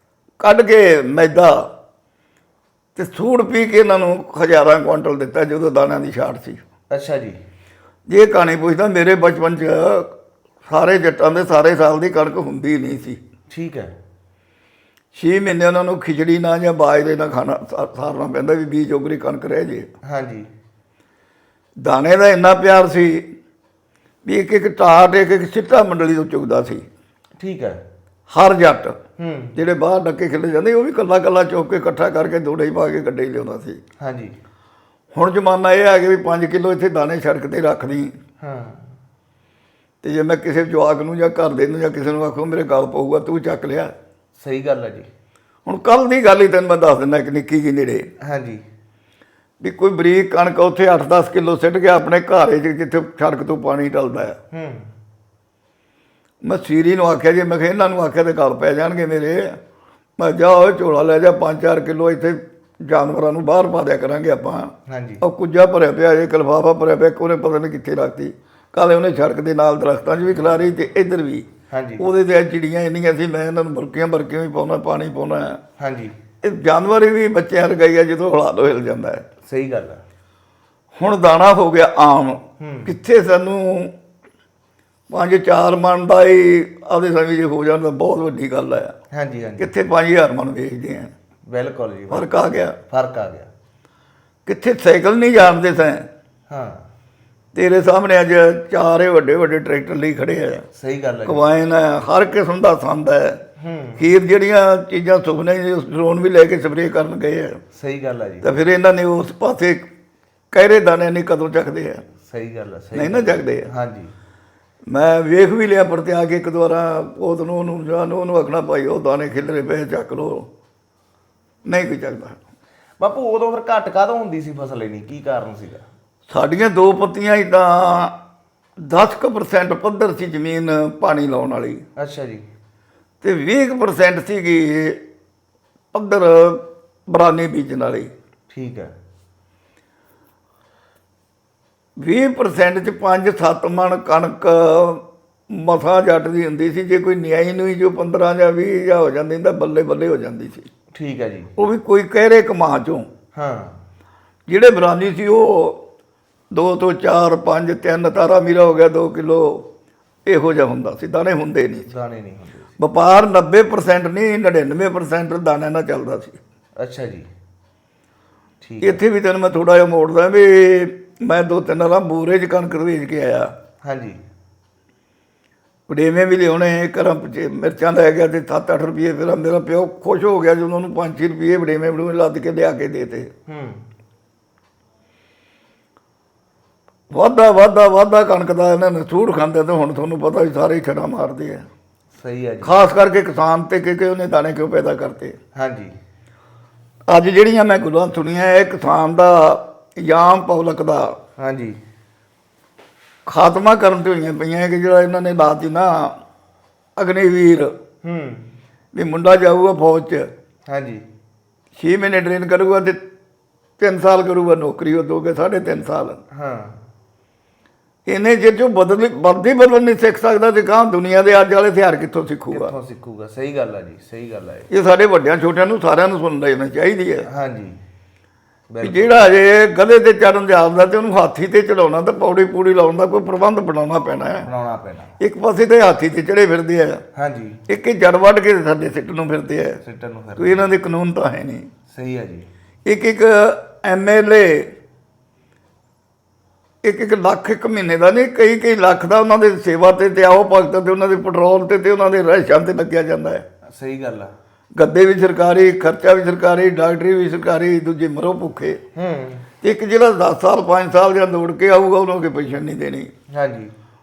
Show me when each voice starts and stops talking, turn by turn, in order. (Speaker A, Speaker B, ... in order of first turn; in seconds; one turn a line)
Speaker A: 0.4-1.7
Speaker A: 3.0-6.6
Speaker B: 6.9-7.4
Speaker A: 8.1-10.1
Speaker A: 10.7-13.2
Speaker B: 13.5-13.9
Speaker A: 15.2-19.9
Speaker B: 20.0-20.5
Speaker A: 21.8-23.3
Speaker A: 24.2-26.9
Speaker B: 27.4-27.8
Speaker A: 28.3-29.0
Speaker B: 29.2-29.6
Speaker A: 29.6-33.8
Speaker B: 34.0-34.4
Speaker A: 35.1-38.1
Speaker B: 38.4-38.9
Speaker A: 40.0-43.9
Speaker B: 44.4-45.1
Speaker A: 45.7-48.1
Speaker B: 48.2-48.6
Speaker A: 49.6-54.4
Speaker B: 54.5-54.9
Speaker A: 56.4-59.6
Speaker A: 60.2-75.6
Speaker B: 64.9-65.2
Speaker B: 71.7-72.1
Speaker B: 75.8-76.2
Speaker A: 76.4-79.2
Speaker B: 79.4-80.0
Speaker A: 81.0-83.9
Speaker B: 82.6-83.0
Speaker A: 85.1-88.9
Speaker B: 89.1-89.7
Speaker A: 89.6-91.1
Speaker B: 91.5-92.3
Speaker A: 92.1-92.8
Speaker B: 92.9-93.5
Speaker A: 94.5-96.1
Speaker B: 96.5-96.8
Speaker A: 97.5-100.7
Speaker B: 100.7-101.5
Speaker A: 101.3-103.4
Speaker B: 103.6-104.1
Speaker A: 104.0-107.6
Speaker B: 107.7-108.6
Speaker A: 108.4-109.9
Speaker A: 110.5-112.0
Speaker B: 112.2-114.1
Speaker A: 113.0-113.7
Speaker A: 114.9-120.5
Speaker A: 121.7-122.4
Speaker B: 123.0-125.8
Speaker A: 126.3-128.2
Speaker A: 128.8-131.8
Speaker B: 132.0-132.4
Speaker A: 133.2-135.0
Speaker A: 135.9-138.1
Speaker B: 138.5-138.9
Speaker A: 142.0-150.7
Speaker B: 150.9-151.5
Speaker A: 151.6-153.1
Speaker B: 153.3-153.8
Speaker A: 154.5-155.8
Speaker A: 156.5-159.7
Speaker A: 160.3-161.9
Speaker B: 161.9-162.8
Speaker A: 162.8-166.4
Speaker B: 166.8-167.3
Speaker B: 168.6-169.0
Speaker A: 168.8-173.5
Speaker B: 173.8-174.2
Speaker A: 175.9-183.3
Speaker B: 183.5-183.9
Speaker A: 187.1-191.7
Speaker B: 192.2-192.8
Speaker A: 192.6-195.4
Speaker B: 195.6-195.9
Speaker A: 197.1-201.2
Speaker B: 201.4-201.8
Speaker A: 203.3-206.2
Speaker A: 207.0-207.7
Speaker B: 208.0-208.5
Speaker A: 208.9-210.3
Speaker B: 210.7-211.1
Speaker A: 211.8-213.0
Speaker A: 213.8-216.2
Speaker B: 216.3-216.8
Speaker A: 218.1-222.7
Speaker B: 222.5-224.7
Speaker A: 224.7-227.3
Speaker B: 227.3-227.8
Speaker B: 228.7-229.3
Speaker A: 228.8-234.5
Speaker B: 234.4-235.2
Speaker A: 235.2-237.0
Speaker B: 237.1-237.6
Speaker A: 237.7-239.8
Speaker B: 239.8-240.8
Speaker A: 240.4-241.7
Speaker B: 241.9-242.5
Speaker A: 242.9-244.7
Speaker A: 246.8-253.4
Speaker B: 253.7-254.3
Speaker A: 254.8-258.8
Speaker B: 258.9-259.5
Speaker A: 259.6-263.1
Speaker B: 263.3-263.7